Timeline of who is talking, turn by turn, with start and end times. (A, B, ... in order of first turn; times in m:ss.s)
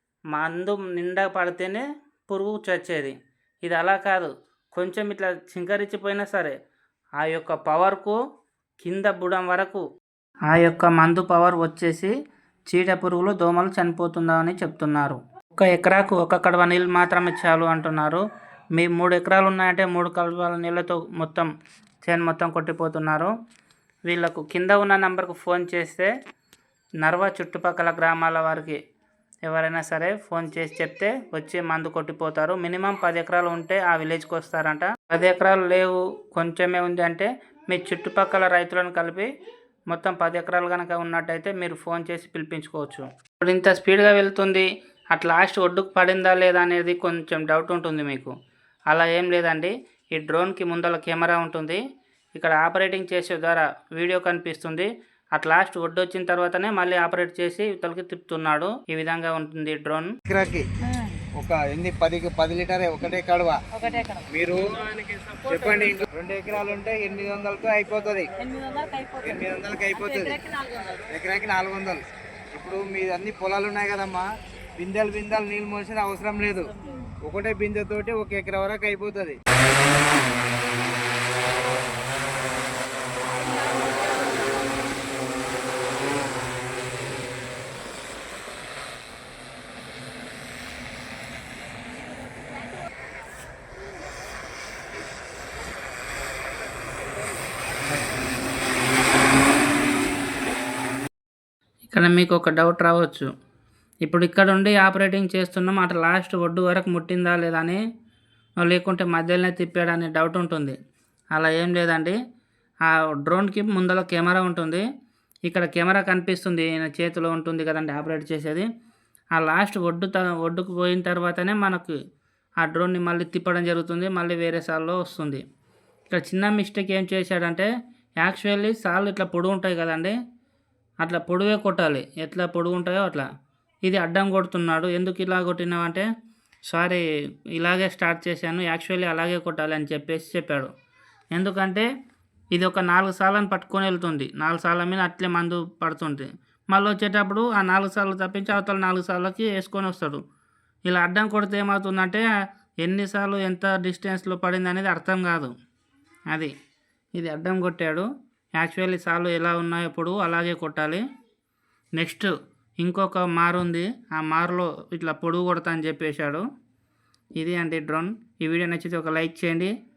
0:00.3-0:03.1 A
0:03.6-0:06.5 A
0:07.2-0:08.2 A
0:08.8-0:09.8 A
0:10.5-0:12.1 A
0:12.7-0:18.2 A
0:18.8-0:21.5 A
0:22.0-0:23.3 A
0:24.1-0:26.1 A
0:27.0-0:28.8 A
0:29.4-0:39.3 A
0:39.9-0:48.3 A
0:48.9-0:51.8 A
0:52.4-1:00.1 A
1:00.3-1:00.6 B
1:01.4-1:03.6 B
1:03.8-1:04.2 C
1:04.3-1:08.3 B
1:08.4-1:09.3 C
1:09.2-1:10.4 B
1:10.1-1:10.9 C
1:11.0-1:12.0 B
1:12.5-1:14.3 B
1:14.8-1:16.7 B
1:17.2-1:19.4 B
1:41.9-1:43.3 A
1:44.0-1:47.8 A
1:48.6-1:50.8 A
1:51.3-1:52.2 A
1:52.8-1:54.8 A
1:55.5-1:58.6 A
1:59.4-2:02.0 A
2:02.6-2:05.4 A
2:06.1-2:07.7 A
2:08.2-2:10.1 A
2:11.0-2:13.3 A
2:13.8-2:16.1 A
2:16.7-2:17.0 A
2:17.6-2:20.7 A
2:21.3-2:21.9 A
2:22.5-2:30.2 A
2:30.9-2:32.2 A
2:32.8-2:35.5 A
2:37.2-2:41.0 A
2:42.0-2:46.4 A
2:47.4-2:49.7 A